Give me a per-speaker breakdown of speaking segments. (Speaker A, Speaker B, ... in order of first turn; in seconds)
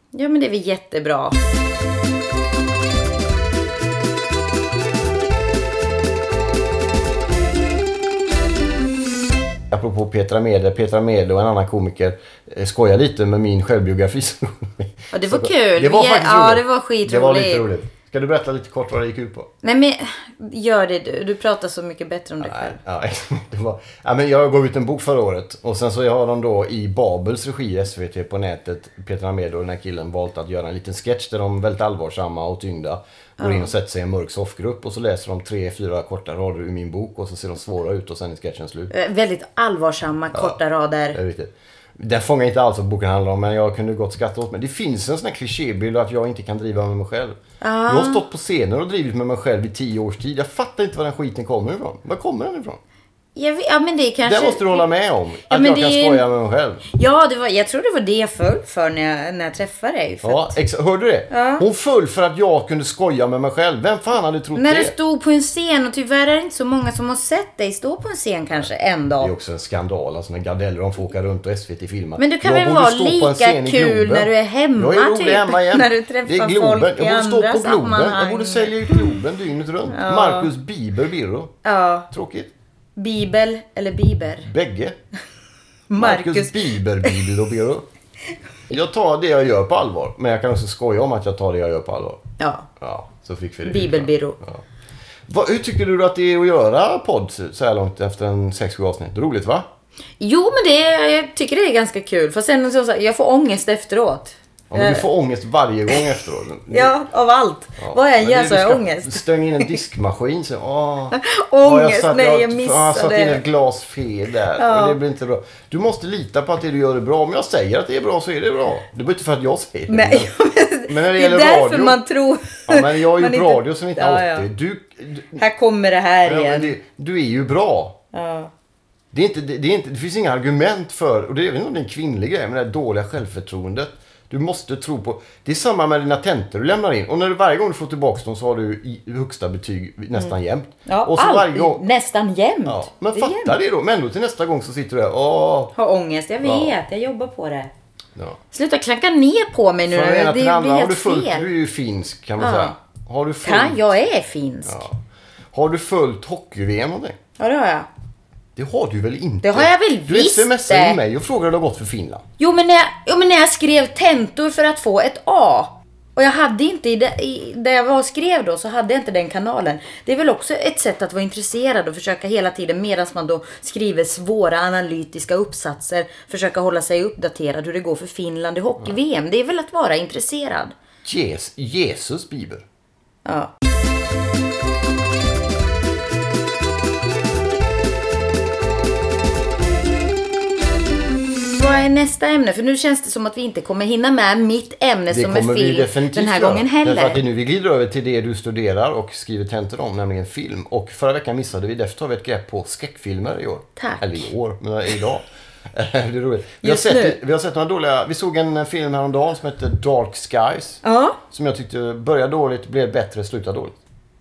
Speaker A: 0.1-1.4, 15.1-17.7, 19.6-22.8, 33.4-33.7, 38.9-41.2, 47.6-48.2, 53.4-54.9, 55.5-56.2, 56.9-60.6, 61.3-61.6, 64.5-69.3, 72.2-79.1, 79.9-80.5, 81.6-82.1, 83.0-84.5, 85.9-87.2, 92.4-92.7, 93.6-94.4, 100.2-105.0, 106.7-109.7, 111.1-113.4, 114.5-115.0, 119.9-124.5, 125.4-126.8, 128.1-128.5, 140.8-143.6, 145.8-147.7, 148.5-151.5, 152.4-152.8, 153.4-154.8, 157.4-157.9, 159.4-161.0, 162.4-180.7, 183.2-183.5, 191.5-197.2, 203.8-204.3, 206.6-207.2, 210.8-211.2
Speaker B: 9.7-19.5, 22.4-38.9, 40.3-40.6, 41.1-52.8, 54.2-56.8, 60.2-64.9, 69.2-81.5, 82.1-82.5, 84.4-85.0, 86.0-87.9, 88.7-92.2, 92.8-94.6, 95.3-99.7, 104.7-107.0, 107.8-120.3, 120.9-122.0, 122.7-125.4, 126.2-128.0, 129.1-141.8, 142.7-145.7, 146.4-146.8, 149.9-154.0, 154.7-155.0, 155.5-157.2, 158.6-162.2, 181.0-182.6, 195.1-213.7